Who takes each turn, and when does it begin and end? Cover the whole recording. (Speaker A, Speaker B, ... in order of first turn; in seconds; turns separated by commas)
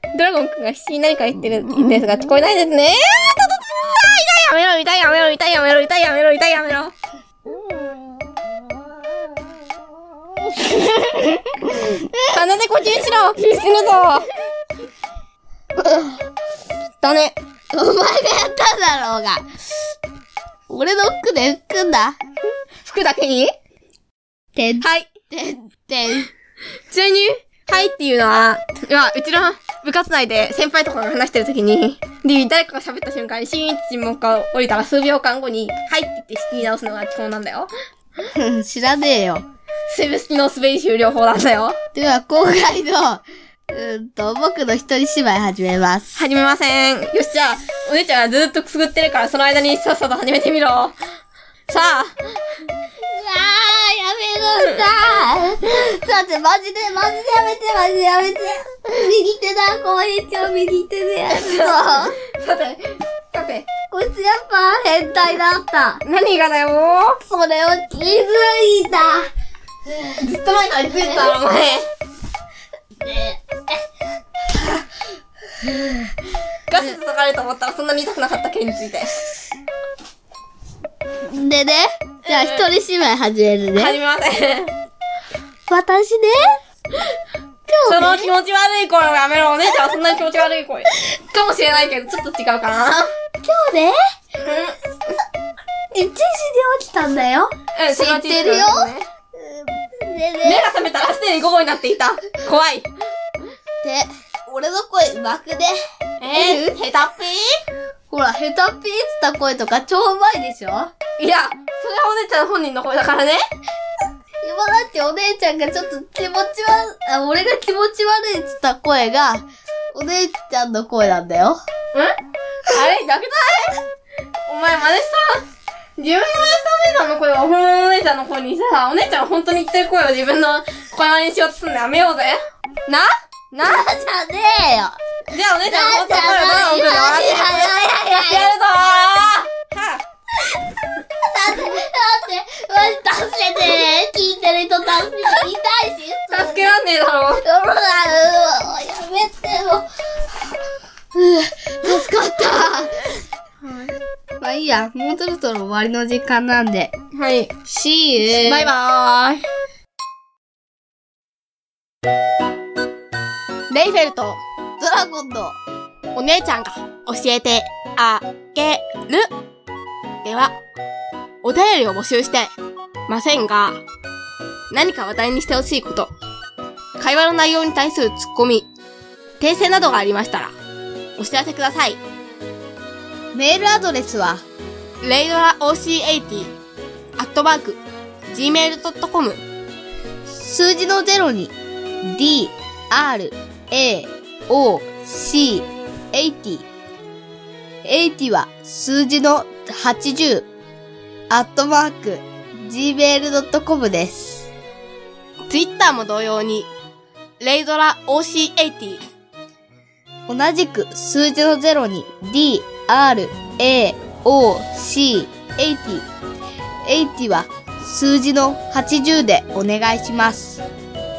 Speaker A: 0.1-6.9, Speaker B: 10.7-12.4, Speaker A: 12.3-14.3, Speaker B: 15.8-16.2, Speaker A: 17.0-17.4, Speaker B: 17.7-19.4, Speaker B: 20.7-22.2, Speaker A: 22.8-23.5, Speaker B: 24.5-26.3, Speaker A: 24.8-25.1, Speaker A: 26.9-37.7, Speaker B: 38.3-39.5, Speaker A: 39.9-41.8, Speaker B: 41.9-46.2, Speaker A: 46.1-50.9, Speaker A: 51.7-52.1, Speaker B: 53.1-62.2, Speaker A: 61.3-62.8, Speaker A: 63.3-63.7, Speaker B: 63.9-66.0, Speaker A: 66.0-67.2, Speaker B: 67.3-69.3, Speaker B: 69.9-70.2, Speaker A: 70.2-71.8, Speaker B: 71.0-71.3, Speaker B: 73.0-73.6, Speaker B: 74.5-74.8, Speaker B: 75.6-76.1, Speaker A: 76.7-79.2, Speaker B: 81.3-84.0, Speaker A: 82.2-82.7, Speaker A: 83.7-84.7, Speaker B: 85.7-86.5, Speaker B: 87.7-88.3, Speaker A: 87.8-93.1, Speaker B: 93.4-93.9, Speaker A: 94.4-94.7, Speaker B: 95.9-100.7, Speaker A: 97.8-99.0, Speaker A: 100.4-102.9, Speaker B: 103.8-105.7, Speaker A: 106.2-107.5, Speaker B: 106.3-106.8, Speaker B: 108.1-110.9, Speaker A: 111.2-113.4, Speaker B: 114.4-121.6, Speaker A: 122.7-123.7, Speaker A: 124.4-125.3, Speaker A: 126.0-133.8, Speaker B: 133.6-135.0, Speaker A: 135.3-140.0, Speaker B: 135.6-138.5, Speaker B: 141.1-146.7, Speaker A: 146.3-147.4, Speaker B: 147.4-149.9, Speaker B: 151.1-152.9, Speaker A: 153.6-153.9, Speaker B: 154.4-156.9, Speaker A: 157.1-157.5, Speaker B: 157.7-158.7, Speaker A: 158.2-159.4, Speaker A: 163.7-164.4, Speaker B: 164.8-165.6, Speaker A: 166.1-169.3, Speaker A: 170.2-170.6, Speaker A: 171.4-172.5, Speaker A: 173.1-173.8, Speaker A: 174.7-176.1, Speaker A: 177.0-178.7, Speaker A: 179.4-180.5, Speaker A: 181.2-182.0, Speaker B: 183.3-184.4, Speaker A: 185.0-186.5, Speaker A: 187.2-189.4, Speaker B: 190.3-196.7, Speaker B: 197.8-200.5, Speaker B: 201.3-204.5, Speaker A: 205.5-206.7, Speaker A: 207.4-209.0, Speaker B: 210.3-216.1, Speaker B: 216.8-220.6